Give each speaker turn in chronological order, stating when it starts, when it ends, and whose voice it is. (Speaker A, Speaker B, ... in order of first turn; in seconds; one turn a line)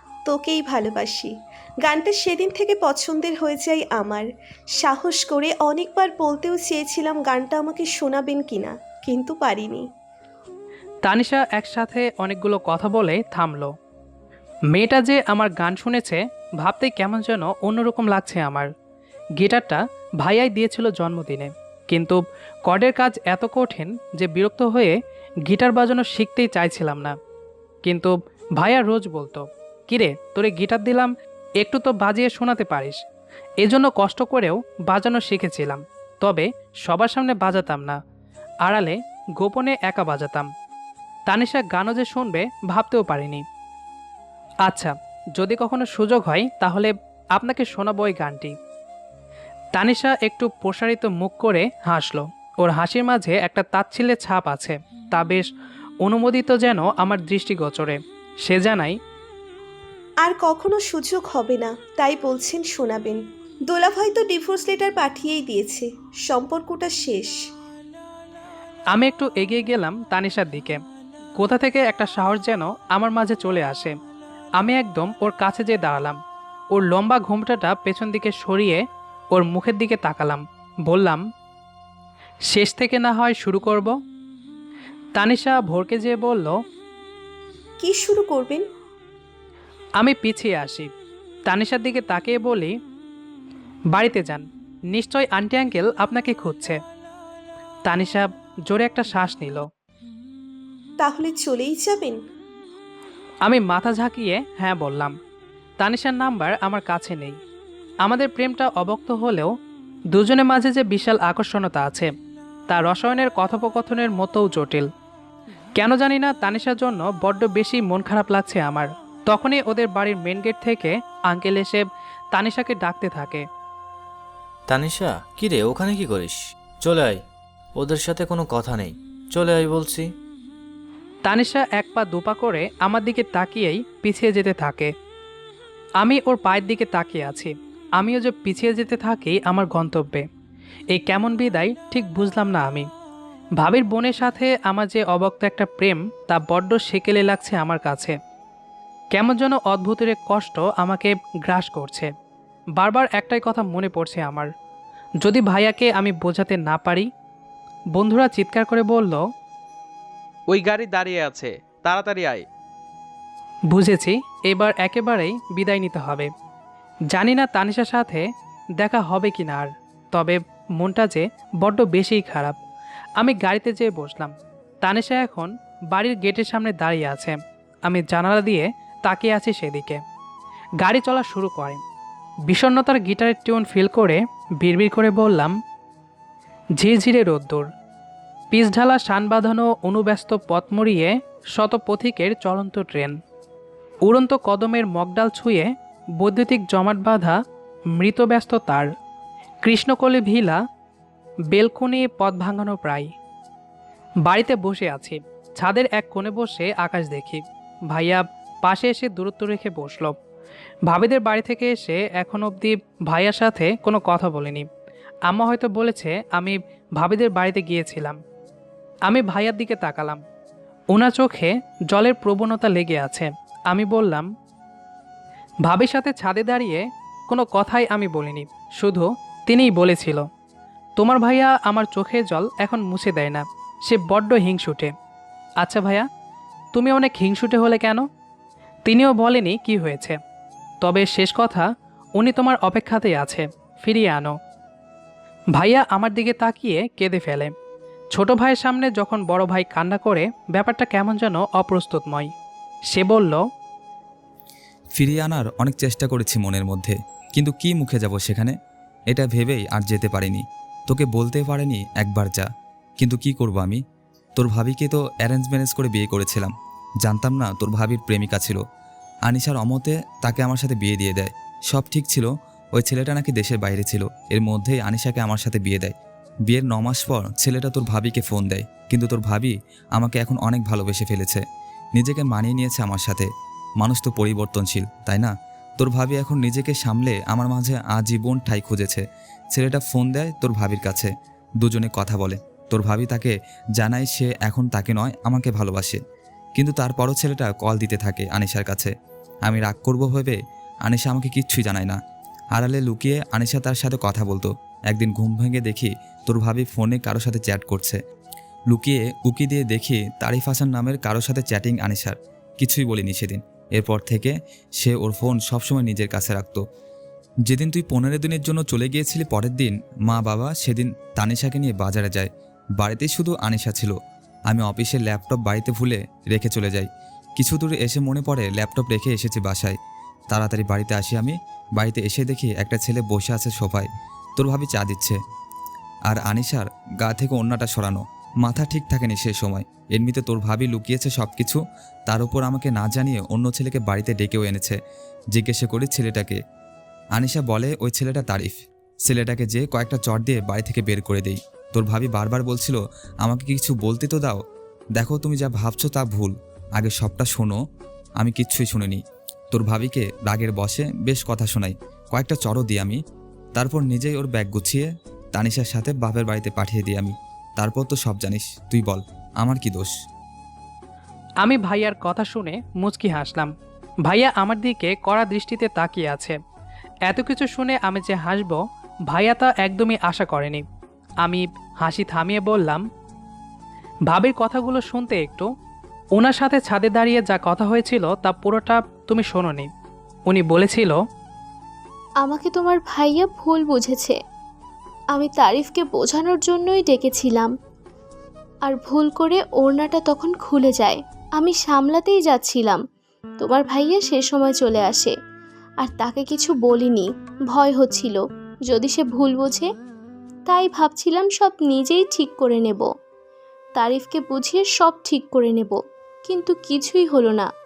Speaker A: 0.2-9.9
Speaker B: 11.0-13.7
Speaker B: 14.7-18.7
Speaker B: 19.4-27.1
Speaker B: 27.9-33.0
Speaker B: 33.6-38.0
Speaker B: 38.6-40.5
Speaker B: 41.3-43.4
Speaker B: 44.6-48.6
Speaker B: 49.8-55.5
Speaker B: 56.0-59.0
Speaker A: 60.2-67.4
Speaker B: 68.9-70.8
Speaker B: 71.4-73.9
Speaker B: 74.6-76.2
Speaker B: 76.8-78.8
Speaker B: 79.3-81.2
Speaker B: 82.5-84.0
Speaker B: 85.2-86.6
Speaker A: 87.8-88.6
Speaker B: 90.0-90.9
Speaker B: 91.5-92.8
Speaker B: 93.9-96.8
Speaker B: 97.9-99.7
Speaker A: 101.0-102.2
Speaker B: 103.5-105.1
Speaker B: 105.8-107.4
Speaker B: 108.0-109.5
Speaker B: 110.1-112.1
Speaker B: 112.7-114.9
Speaker B: 115.8-123.5
Speaker C: 124.7-127.2
Speaker C: 127.8-130.1
Speaker B: 131.2-134.9
Speaker B: 136.0-140.2
Speaker B: 140.9-142.9
Speaker B: 143.6-148.2
Speaker B: 149.1-152.1
Speaker B: 152.8-154.5
Speaker B: 155.2-157.1
Speaker B: 157.9-159.2
Speaker D: 160.5-162.4
Speaker B: 163.7-166.3
Speaker B: 167.1-172.6
Speaker B: 173.2-180.0
Speaker B: 180.8-181.8
Speaker B: 182.5-185.5
Speaker B: 186.8-187.7
Speaker B: 188.5-193.2
Speaker B: 194.1-197.4
Speaker B: 197.9-198.9
Speaker B: 199.6-200.6
Speaker B: 201.5-203.1
Speaker B: 204.2-210.2
Speaker B: 210.9-214.7
Speaker B: 215.3-218.2
Speaker B: 219.1-220.2
Speaker B: 220.9-224.3
Speaker B: 225.7-230.3
Speaker B: 231.0-234.9
Speaker B: 235.6-236.1
Speaker B: 236.8-238.0
Speaker B: 238.9-240.2
Speaker B: 240.8-241.6
Speaker B: 242.2-244.4
Speaker B: 245.5-247.5
Speaker B: 248.1-252.3
Speaker B: 252.9-253.4
Speaker E: 255.0-258.6
Speaker E: 259.1-263.8
Speaker E: 264.4-268.6
Speaker E: 269.3-275.9
Speaker E: 276.5-281.4
Speaker E: 282.0-283.3
Speaker E: 283.8-296.0
Speaker E: 296.6-298.9
Speaker E: 299.5-302.0
Speaker E: 302.5-308.0
Speaker E: 308.7-316.6
Speaker E: 317.5-324.0
Speaker E: 324.5-329.8
Speaker E: 330.3-335.2
Speaker E: 336.1-344.8
Speaker E: 345.3-346.4
Speaker E: 347.1-354.4
Speaker E: 355.0-357.6
Speaker E: 358.2-363.0
Speaker E: 363.5-369.9
Speaker B: 371.4-373.5
Speaker B: 374.1-376.4
Speaker B: 377.1-380.6
Speaker B: 381.2-382.8
Speaker B: 384.1-385.5
Speaker B: 386.2-389.7
Speaker B: 390.3-391.0
Speaker F: 392.2-394.2
Speaker F: 395.1-397.5
Speaker F: 398.6-402.8
Speaker F: 403.4-405.1
Speaker F: 405.8-409.7
Speaker F: 410.5-412.9
Speaker F: 413.8-417.5